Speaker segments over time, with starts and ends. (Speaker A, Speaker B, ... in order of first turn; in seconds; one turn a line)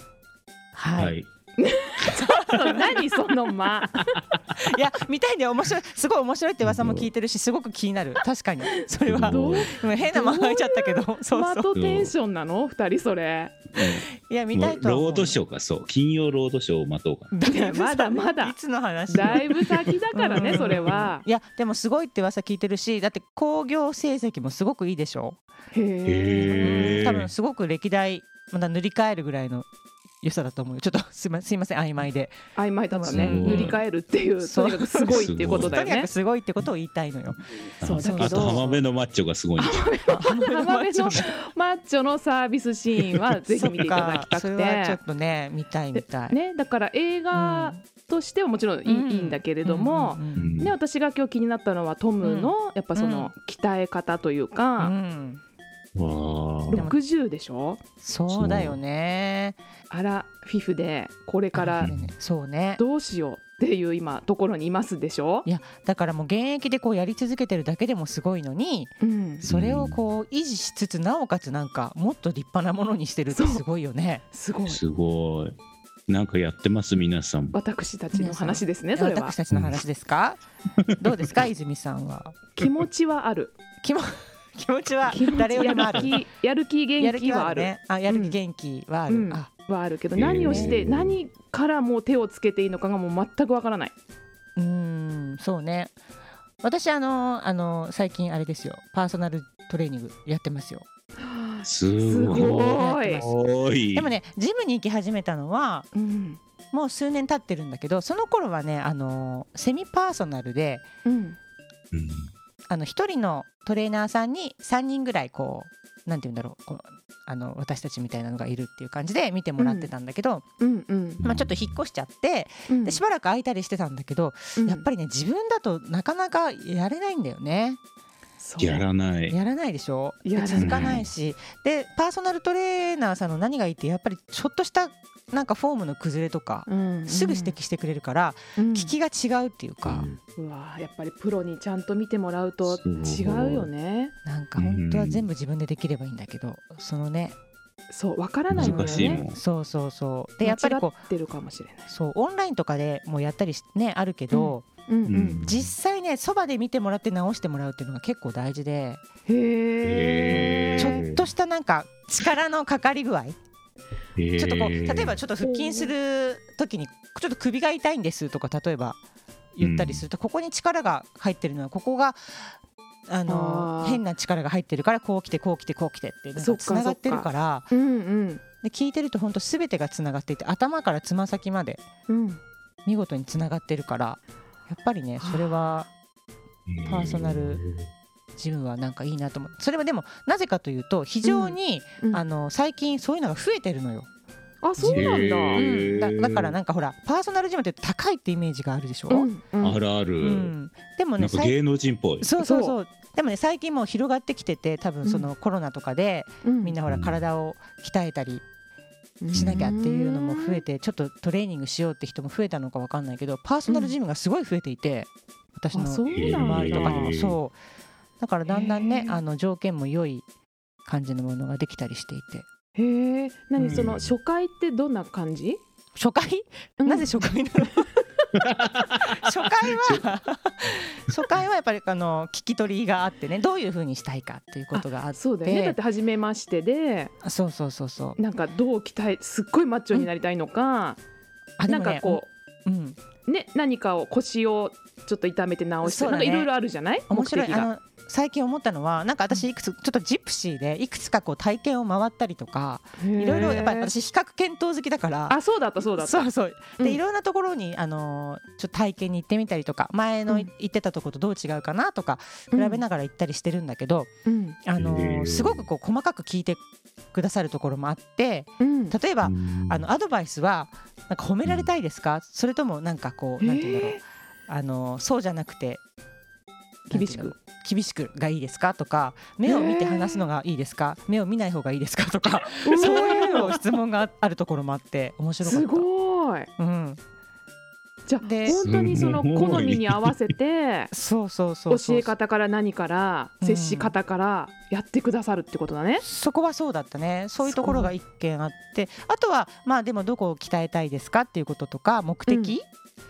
Speaker A: 0.8-1.1
Speaker B: 1.0-1.3
Speaker C: 1.6-4.2
Speaker A: 2.1-3.0
Speaker A: 4.6-11.7
Speaker B: 6.6-7.1
Speaker B: 9.1-9.8
Speaker C: 9.3-13.6
Speaker B: 11.8-12.1
Speaker B: 13.7-17.3
Speaker A: 14.3-15.4
Speaker A: 17.3-25.4
Speaker C: 17.4-18.6
Speaker C: 19.1-21.2
Speaker B: 20.4-21.0
Speaker C: 25.7-27.1
Speaker B: 26.1-27.3
Speaker A: 26.6-29.7
Speaker A: 30.2-32.4
Speaker C: 32.6-36.1
Speaker A: 32.9-33.8
Speaker B: 33.1-33.8
Speaker A: 34.4-37.4
Speaker B: 35.1-35.8
Speaker B: 37.8-39.9
Speaker C: 37.8-38.6
Speaker A: 37.9-38.8
Speaker C: 39.6-45.0
Speaker A: 40.1-41.3
Speaker A: 43.5-46.4
Speaker C: 46.0-54.9
Speaker A: 47.3-47.8
Speaker A: 48.9-50.6
Speaker B: 50.4-50.8
Speaker A: 52.2-53.3
Speaker A: 54.8-55.4
Speaker B: 56.0-56.9
Speaker C: 56.7-57.8
Speaker A: 58.0-59.6
Speaker B: 58.3-58.8
Speaker C: 59.9-61.9
Speaker A: 61.5-62.8
Speaker B: 61.8-62.1
Speaker C: 62.8-65.5
Speaker A: 65.5-74.2
Speaker C: 69.0-69.5
Speaker B: 69.4-70.0
Speaker C: 73.3-73.6
Speaker C: 74.3-74.8
Speaker B: 74.7-75.5
Speaker B: 76.1-77.6
Speaker C: 77.5-79.3
Speaker A: 78.1-80.4
Speaker B: 79.5-79.8
Speaker B: 80.9-81.4
Speaker A: 81.0-82.5
Speaker C: 82.6-83.5
Speaker A: 83.8-86.2
Speaker C: 85.1-88.4
Speaker A: 87.0-89.5
Speaker C: 89.1-93.9
Speaker B: 90.2-91.2
Speaker A: 90.3-90.8
Speaker A: 94.6-96.0
Speaker A: 96.6-100.9
Speaker C: 101.2-103.2
Speaker B: 101.6-104.1
Speaker A: 102.3-105.9
Speaker C: 105.9-106.4
Speaker A: 106.7-110.9
Speaker C: 111.0-111.4
Speaker B: 111.9-112.3
Speaker A: 112.7-120.4
Speaker C: 119.6-119.9
Speaker C: 120.6-121.2
Speaker B: 121.2-121.7
Speaker A: 121.2-127.8
Speaker C: 122.7-123.0
Speaker C: 124.6-124.9
Speaker C: 128.4-128.8
Speaker B: 128.6-129.4
Speaker A: 129.3-140.1
Speaker C: 130.2-131.0
Speaker B: 130.6-131.1
Speaker C: 136.7-137.6
Speaker C: 138.6-138.9
Speaker B: 139.8-140.2
Speaker C: 140.4-144.1
Speaker B: 142.6-143.7
Speaker A: 144.2-147.4
Speaker B: 144.6-145.3
Speaker C: 147.9-149.2
Speaker B: 148.5-149.4
Speaker A: 148.6-151.0
Speaker C: 150.4-151.9
Speaker A: 151.9-154.7
Speaker C: 154.3-155.5
Speaker B: 155.1-155.7
Speaker A: 155.4-159.0
Speaker C: 159.3-161.0
Speaker B: 159.8-161.2
Speaker A: 160.3-163.4
Speaker B: 164.2-165.2
Speaker A: 164.4-169.0
Speaker C: 165.4-165.9
Speaker A: 169.6-172.5
Speaker B: 169.6-170.1
Speaker A: 173.1-177.7
Speaker C: 173.3-174.0
Speaker C: 176.4-178.4
Speaker A: 178.6-181.8
Speaker C: 182.1-182.4
Speaker A: 182.8-185.9
Speaker C: 185.2-185.9
Speaker B: 186.7-187.9
Speaker A: 186.8-187.6
Speaker A: 188.4-194.1
Speaker C: 191.2-192.2
Speaker C: 194.6-195.7
Speaker A: 194.8-199.3
Speaker B: 194.9-196.6
Speaker C: 199.1-199.8
Speaker B: 199.6-200.5
Speaker A: 200.2-201.6
Speaker B: 201.2-202.3
Speaker A: 202.2-208.4
Speaker C: 202.4-202.8
Speaker C: 205.0-205.3
Speaker C: 206.4-206.8
Speaker B: 206.9-207.2
Speaker C: 209.2-210.6
Speaker A: 209.3-217.6
Speaker B: 209.3-209.6
Speaker C: 213.7-213.9
Speaker C: 215.7-217.2
Speaker B: 216.1-217.4
Speaker A: 218.2-220.3
Speaker C: 218.5-219.2
Speaker A: 220.9-222.5
Speaker C: 222.8-225.6
Speaker A: 223.6-223.9
Speaker B: 223.7-224.1
Speaker A: 225.9-227.9
Speaker C: 226.8-227.6
Speaker B: 228.3-229.2
Speaker A: 229.1-235.8
Speaker B: 229.7-230.0
Speaker C: 234.7-237.1
Speaker A: 237.2-238.2
Speaker C: 238.2-241.0
Speaker A: 241.6-243.0
Speaker C: 241.7-242.3
Speaker C: 243.2-247.7
Speaker A: 245.8-246.5
Speaker A: 247.1-255.4
Speaker C: 253.0-253.9
Speaker C: 255.3-257.0
Speaker A: 256.0-264.1
Speaker C: 262.5-262.8
Speaker C: 264.3-264.6
Speaker A: 264.6-275.8
Speaker B: 264.8-265.7
Speaker C: 268.6-269.0
Speaker B: 269.2-269.9
Speaker B: 271.4-271.7
Speaker C: 273.4-274.0
Speaker A: 276.9-285.9
Speaker C: 276.9-277.3
Speaker C: 279.4-280.2
Speaker C: 282.6-283.6
Speaker C: 285.4-286.5
Speaker A: 286.6-287.0
Speaker C: 288.1-290.9
Speaker A: 288.2-288.6
Speaker B: 288.5-290.1
Speaker A: 290.9-292.1
Speaker C: 291.7-296.0
Speaker A: 293.4-293.9
Speaker A: 296.0-302.6
Speaker C: 297.4-297.9
Speaker C: 302.3-302.6